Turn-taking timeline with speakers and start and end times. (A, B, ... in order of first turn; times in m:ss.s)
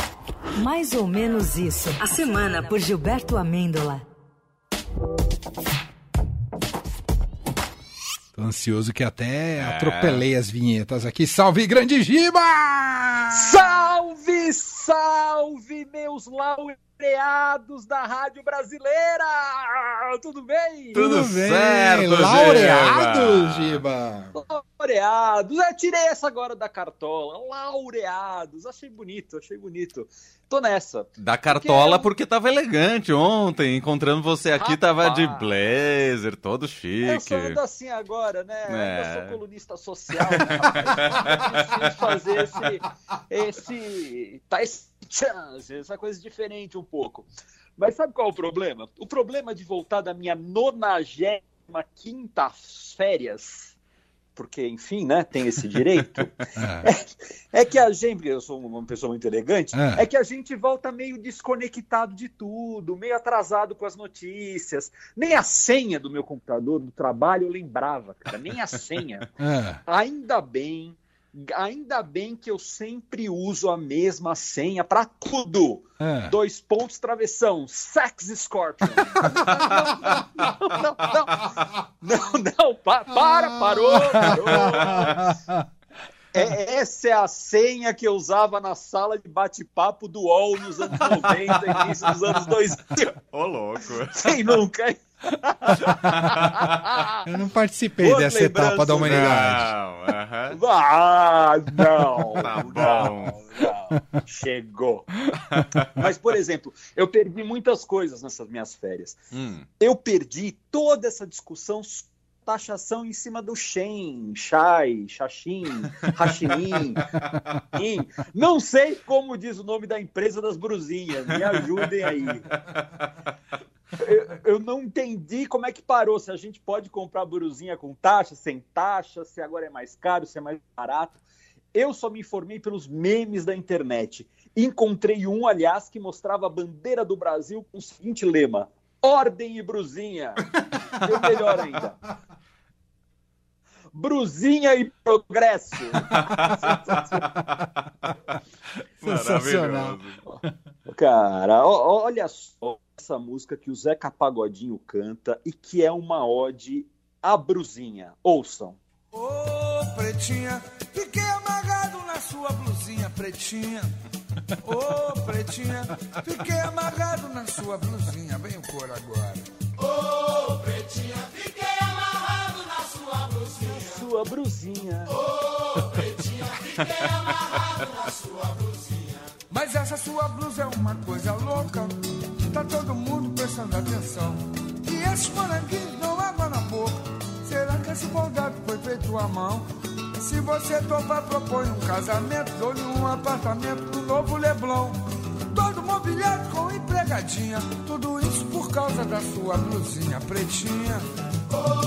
0:00.6-0:04.0 A
0:08.3-0:13.5 B
0:09.6-0:10.2 C
0:13.3-0:21.0 D
0:20.9-0:24.3 B
0:20.9-0:23.8 C
0:24.3-0:32.1 D
0:31.2-0:37.6 C
0:34.6-0:35.6 D
0:37.0-0:53.8 D
0:38.7-0:39.4 C
0:40.2-0:42.1 C
0:54.3-1:09.3 D
0:56.6-0:56.8 B
0:59.7-1:00.0 B
1:09.4-1:09.8 B
1:09.8-1:25.2 D
1:16.0-1:16.3 B
1:19.2-1:20.2 B
1:24.1-1:25.6 B
1:26.3-1:33.1 D
1:31.2-1:31.9 C
1:33.4-1:34.4 C
1:34.2-1:37.2 D
1:37.2-1:39.7 B
1:38.0-1:39.3 D
1:39.0-1:40.6 C
1:40.5-1:45.1 D
1:42.4-1:43.4 C
1:45.5-1:45.8 C
1:45.9-1:49.2 D
1:49.3-1:49.6 C
1:49.8-1:57.0 D
1:57.7-2:02.4 D
2:04.0-2:11.2 D
2:11.7-2:20.4 D
2:21.0-2:22.0 D
2:23.9-2:27.2 D
2:29.0-2:30.0 B
2:29.1-2:30.2 C
2:30.9-2:38.8 D
2:39.1-2:43.9 E
2:44.6-2:49.5 E
2:50.7-2:53.4 E
2:53.6-2:55.1 D
2:56.8-2:57.6 C
2:59.5-3:09.6 E
3:10.2-3:15.0 E
3:15.5-3:21.0 E